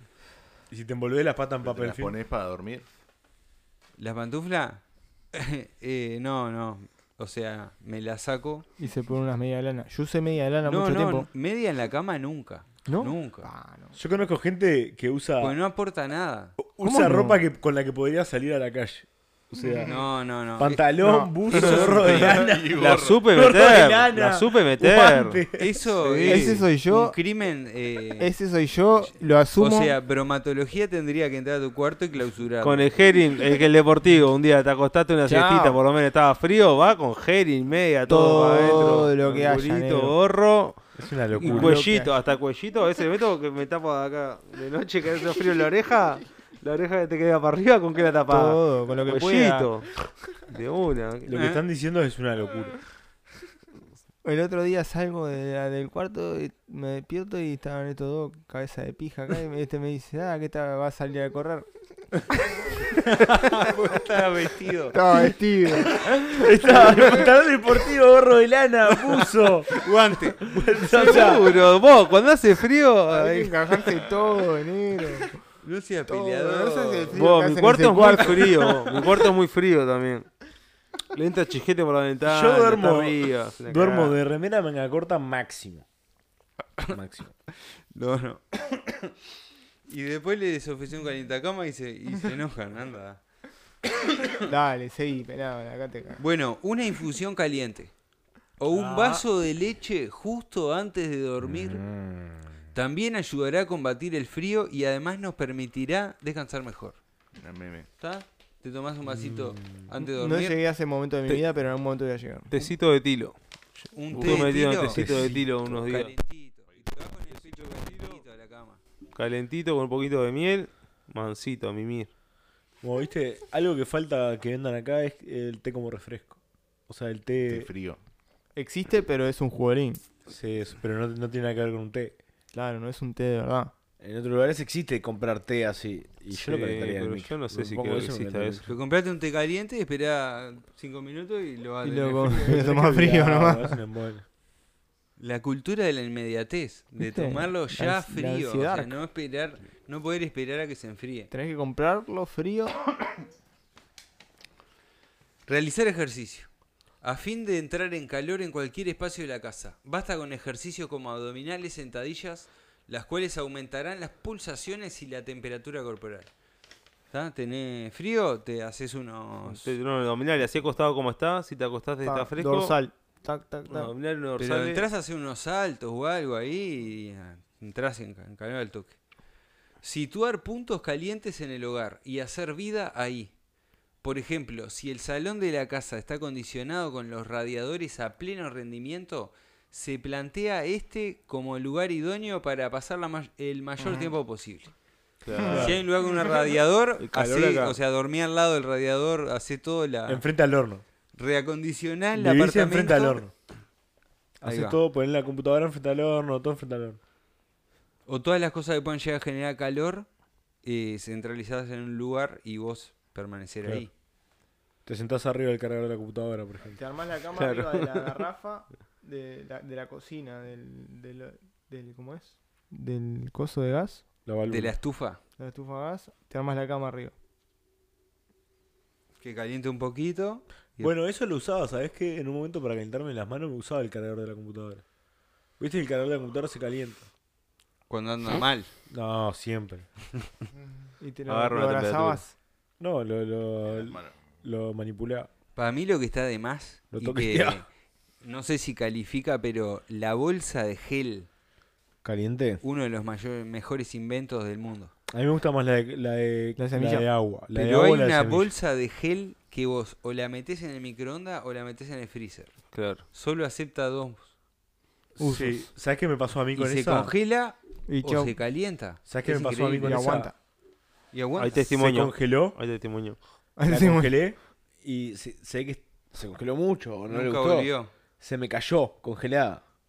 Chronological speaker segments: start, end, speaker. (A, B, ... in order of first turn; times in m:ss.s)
0:00.7-0:02.1 A
0:01.6-0:02.8 B
0:04.0-0:08.6 C
0:08.8-0:11.3 D
0:10.6-0:13.5 C
0:12.9-0:13.9 D
0:13.9-0:15.6 A
0:15.4-0:16.6 C
0:16.6-0:19.9 A
0:16.8-0:17.4 D
0:19.6-0:20.1 B
0:19.8-0:20.8 C
0:20.6-0:25.9 A
0:21.0-0:21.3 D
0:21.4-0:22.5 C
0:21.6-0:23.3 B
0:22.7-0:25.4 E
0:25.5-0:28.3 C
0:26.0-0:26.6 E
0:26.2-0:27.2 D
0:28.2-0:30.0 D
0:29.6-0:32.9 C
0:32.6-0:40.8 E
0:35.3-0:35.8 D
0:38.1-0:40.1 D
0:41.0-0:41.8 A
0:41.3-0:51.4 E
0:41.4-0:42.1 D
0:48.3-0:49.7 D
0:51.3-0:52.7 A
0:51.3-0:51.6 C
0:54.2-1:01.7 D
1:03.4-1:05.0 C
1:04.9-1:07.3 D
1:05.8-1:09.7 A
1:09.1-1:11.3 C
1:10.4-1:11.6 A
1:10.9-1:13.8 E
1:13.1-1:15.4 D
1:15.6-1:17.2 C
1:16.1-1:18.7 D
1:17.1-1:20.3 E
1:21.1-1:24.2 E
1:22.2-1:25.8 A
1:26.9-1:27.3 A
1:27.9-1:28.9 C
1:29.9-1:33.2 C
1:34.4-1:36.2 D
1:36.2-1:37.9 C
1:38.6-1:41.8 C
1:38.7-1:39.2 A
1:41.4-1:42.6 A
1:42.7-1:47.0 C
1:47.4-1:47.9 B
1:48.0-1:50.6 C
1:49.0-1:49.8 A
1:50.0-1:52.5 D
1:52.5-1:53.4 E
1:53.9-1:58.8 C
1:54.1-1:56.1 E
1:54.9-1:55.5 A
1:56.7-1:57.1 B
1:59.1-2:02.1 E
2:02.8-2:06.4 A
2:06.9-2:07.7 A
2:07.5-2:08.0 B
2:08.6-2:10.0 D
2:10.2-2:12.2 A
2:12.5-2:13.7 D
2:14.0-2:18.7 A
2:16.3-2:18.7 E
2:18.6-2:22.7 C
2:21.8-2:23.8 D
2:22.4-2:24.2 A
2:25.2-2:31.3 C
2:27.0-2:29.0 D
2:31.3-2:32.9 D
2:35.5-2:36.5 C
2:37.0-2:46.3 C
2:47.1-2:49.7 C
2:49.5-2:52.8 E
2:52.0-2:53.9 D
2:53.7-2:54.8 E
2:54.4-2:59.0 C
2:59.8-3:03.3 C
3:04.0-3:14.7 C
3:15.2-3:15.8 E
3:15.4-3:15.8 A
3:15.4-3:20.2 C
3:17.0-3:17.7 E
3:20.1-3:20.8 A
3:21.1-3:23.2 C
3:22.1-3:23.3 A
3:24.4-3:27.0 A
3:24.4-3:24.8 C
3:28.1-3:30.1 C
3:30.6-3:33.9 C
3:34.8-3:36.8 A
3:36.7-3:44.0 D
3:37.3-3:38.2 E
3:44.2-3:44.7 A
3:44.5-3:45.2 C
3:45.4-3:47.1 D
3:49.2-3:50.9 C
3:50.8-3:54.8 A
3:55.6-3:57.1 A
3:57.9-3:58.7 C
3:58.9-3:59.9 A
4:01.0-4:02.3 D
4:01.3-4:02.2 E
4:02.8-4:05.3 A
4:03.7-4:04.2 B
4:05.6-4:07.7 C
4:06.9-4:07.6 A
4:08.2-4:11.3 C
4:12.0-4:12.6 A
4:12.6-4:14.9 C
4:15.1-4:18.5 A
4:16.6-4:17.1 D
4:17.5-4:24.3 C
4:22.7-4:23.0 E
4:25.2-4:27.1 A
4:25.2-4:25.7 D
4:26.5-4:30.2 C
4:27.9-4:28.4 D
4:29.0-4:30.3 A
4:29.8-4:30.3 D
4:31.1-4:31.7 C
4:31.4-4:33.2 E
4:31.8-4:32.6 A
4:33.6-4:34.1 D
4:33.6-4:39.6 A
4:37.1-4:37.9 C